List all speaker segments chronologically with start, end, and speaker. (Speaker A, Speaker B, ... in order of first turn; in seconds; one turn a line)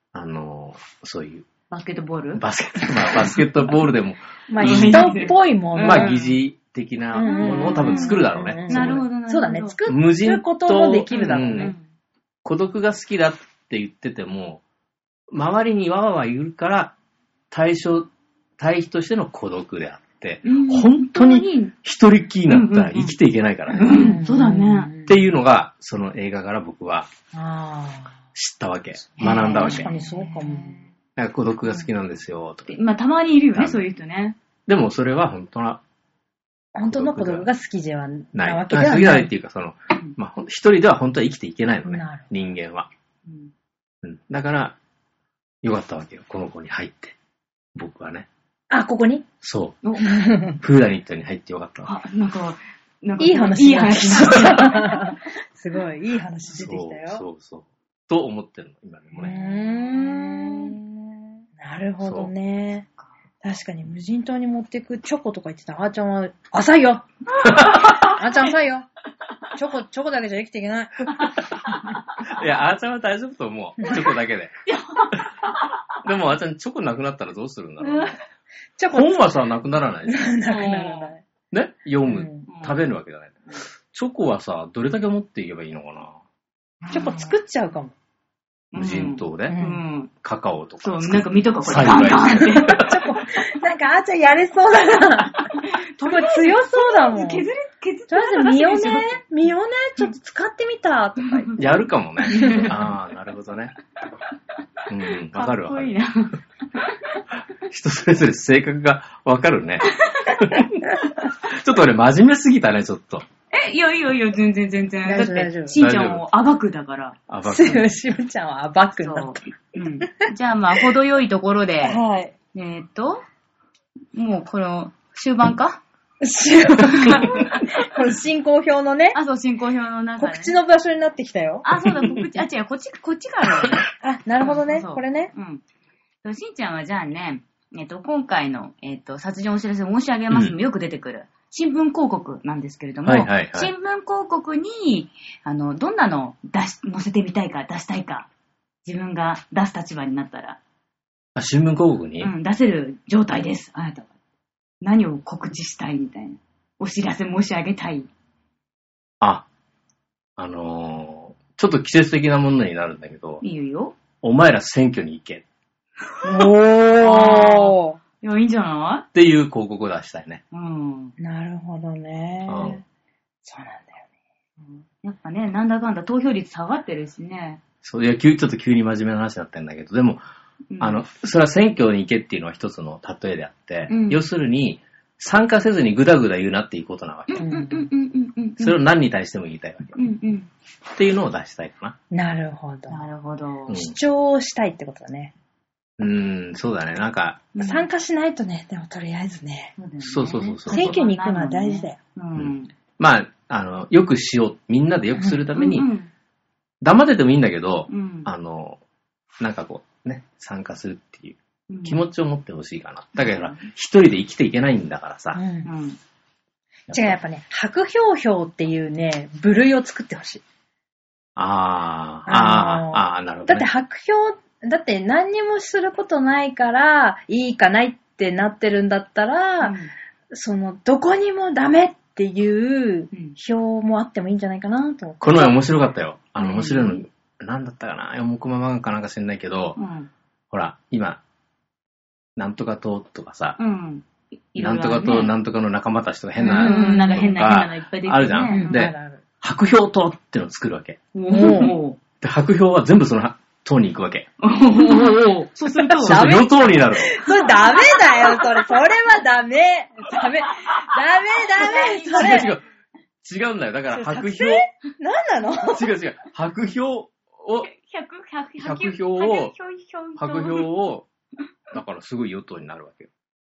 Speaker A: 0.1-1.5
Speaker B: 1.7-2.4
Speaker A: 2.4-9.1
Speaker C: 4.5-6.2
Speaker B: 4.5-6.4
Speaker C: 7.1-11.8
Speaker B: 7.2-9.8
Speaker A: 9.9-11.8
Speaker B: 11.1-11.8
Speaker A: 12.4-14.6
Speaker A: 15.3-16.9
Speaker A: 17.5-23.9
Speaker B: 20.4-21.7
Speaker B: 22.5-23.1
Speaker B: 23.7-24.9
Speaker C: 23.9-25.2
Speaker A: 25.1-27.1
Speaker C: 27.3-28.1
Speaker A: 28.4-29.9
Speaker C: 29.2-30.8
Speaker B: 29.2-30.9
Speaker A: 31.2-32.8
Speaker B: 32.7-34.4
Speaker A: 33.5-33.8
Speaker A: 34.7-35.8
Speaker C: 36.8-39.3
Speaker A: 36.9-37.5
Speaker A: 38.3-42.9
Speaker C: 41.9-42.3
Speaker B: 43.3-43.5
Speaker A: 44.0-44.8
Speaker A: 45.6-47.2
Speaker A: 47.8-48.3
Speaker C: 48.7-49.3
Speaker A: 49.4-49.8
Speaker B: 49.8-50.2
Speaker C: 50.0-50.6
Speaker A: 50.6-51.9
Speaker B: 51.8-55.2
Speaker C: 53.2-57.2
Speaker A: 56.6-59.4
Speaker C: 59.2-60.9
Speaker B: 59.2-60.8
Speaker C: 61.6-62.9
Speaker A: 62.0-62.3
Speaker C: 63.4-67.0
Speaker B: 67.3-68.5
Speaker A: 67.4-68.0
Speaker C: 67.6-68.9
Speaker C: 69.5-71.2
Speaker B: 71.1-72.3
Speaker A: 72.2-74.5
Speaker B: 74.7-75.8
Speaker A: 76.0-78.2
Speaker B: 77.8-78.2
Speaker C: 78.8-79.3
Speaker A: 78.9-80.3
Speaker C: 80.1-81.2
Speaker B: 80.5-81.1
Speaker A: 81.5-83.4
Speaker C: 82.1-82.5
Speaker B: 82.5-82.8
Speaker A: 83.9-86.2
Speaker B: 86.9-87.3
Speaker C: 86.9-87.9
Speaker B: 88.7-90.1
Speaker A: 88.8-89.6
Speaker C: 89.5-89.8
Speaker A: 90.2-93.0
Speaker B: 90.8-92.8
Speaker C: 91.8-97.5
Speaker B: 95.6-99.2
Speaker C: 98.1-101.7
Speaker A: 101.6-103.7
Speaker B: 102.3-102.8
Speaker C: 102.4-102.7
Speaker A: 104.9-106.0
Speaker B: 105.3-107.0
Speaker A: 107.5-113.2
Speaker B: 110.0-110.4
Speaker B: 113.5-117.2
Speaker C: 115.1-115.8
Speaker A: 115.8-116.2
Speaker A: 117.3-117.9
Speaker C: 117.5-119.4
Speaker B: 119.0-122.0
Speaker C: 120.0-120.3
Speaker C: 121.8-122.3
Speaker B: 122.5-123.2
Speaker B: 124.2-125.8
Speaker C: 126.2-129.2
Speaker B: 126.9-127.8
Speaker B: 129.1-130.6
Speaker C: 130.2-132.2
Speaker B: 131.6-133.9
Speaker C: 134.0-135.3
Speaker B: 134.4-135.6
Speaker B: 136.2-148.3
Speaker A: 143.1-143.7
Speaker B: 148.8-150.6
Speaker A: 151.3-152.3
Speaker B: 152.2-154.1
Speaker B: 154.8-158.1
Speaker A: 159.2-159.5
Speaker A: 160.4-163.4
Speaker B: 163.4-164.0
Speaker A: 164.2-165.4
Speaker C: 166.2-168.0
Speaker B: 167.0-169.1
Speaker A: 169.2-170.4
Speaker B: 170.5-171.2
Speaker C: 171.2-172.8
Speaker A: 172.5-172.8
Speaker C: 173.4-174.0
Speaker B: 174.7-177.6
Speaker A: 177.8-180.2
Speaker B: 180.7-181.0
Speaker A: 180.8-187.5
Speaker B: 183.9-184.2
Speaker B: 187.3-188.8
Speaker C: 187.4-187.9
Speaker A: 188.6-190.0
Speaker B: 190.0-190.5
Speaker A: 190.9-192.0
Speaker C: 192.1-193.0
Speaker B: 192.9-193.8
Speaker A: 193.7-194.0
Speaker C: 193.7-195.3
Speaker A: 196.0-197.5
Speaker B: 197.6-197.9
Speaker C: 197.6-199.7
Speaker B: 199.8-202.7
Speaker A: 200.0-201.0
Speaker C: 200.7-202.0
Speaker A: 202.4-205.9
Speaker B: 205.6-206.1
Speaker A: 206.8-208.8
Speaker B: 207.9-208.3
Speaker A: 209.4-215.4
Speaker B: 211.7-212.1
Speaker B: 213.2-213.7
Speaker C: 215.4-215.7
Speaker B: 215.7-216.0
Speaker A: 216.9-217.2
Speaker C: 216.9-220.4
Speaker A: 221.4-223.7
Speaker C: 222.3-229.8
Speaker B: 229.6-229.9
Speaker C: 230.3-235.5
Speaker A: 235.2-239.8
Speaker B: 236.4-237.0
Speaker B: 239.8-240.1
Speaker A: 240.5-241.2
Speaker A: 242.4-243.6
Speaker B: 243.6-245.3
Speaker A: 244.6-251.0
Speaker C: 246.4-247.3
Speaker B: 246.5-248.8
Speaker C: 248.5-249.2
Speaker B: 251.2-252.0
Speaker C: 251.3-251.8
Speaker A: 252.2-254.3
Speaker B: 254.4-256.3
Speaker C: 255.8-262.6
Speaker A: 256.0-257.2
Speaker B: 257.2-258.9
Speaker B: 260.5-262.6
Speaker A: 262.1-262.6
Speaker A: 263.2-264.7
Speaker C: 263.9-265.9
Speaker A: 265.7-267.7
Speaker B: 267.6-270.7
Speaker A: 268.6-269.5
Speaker A: 270.2-271.1
Speaker A: 271.7-273.1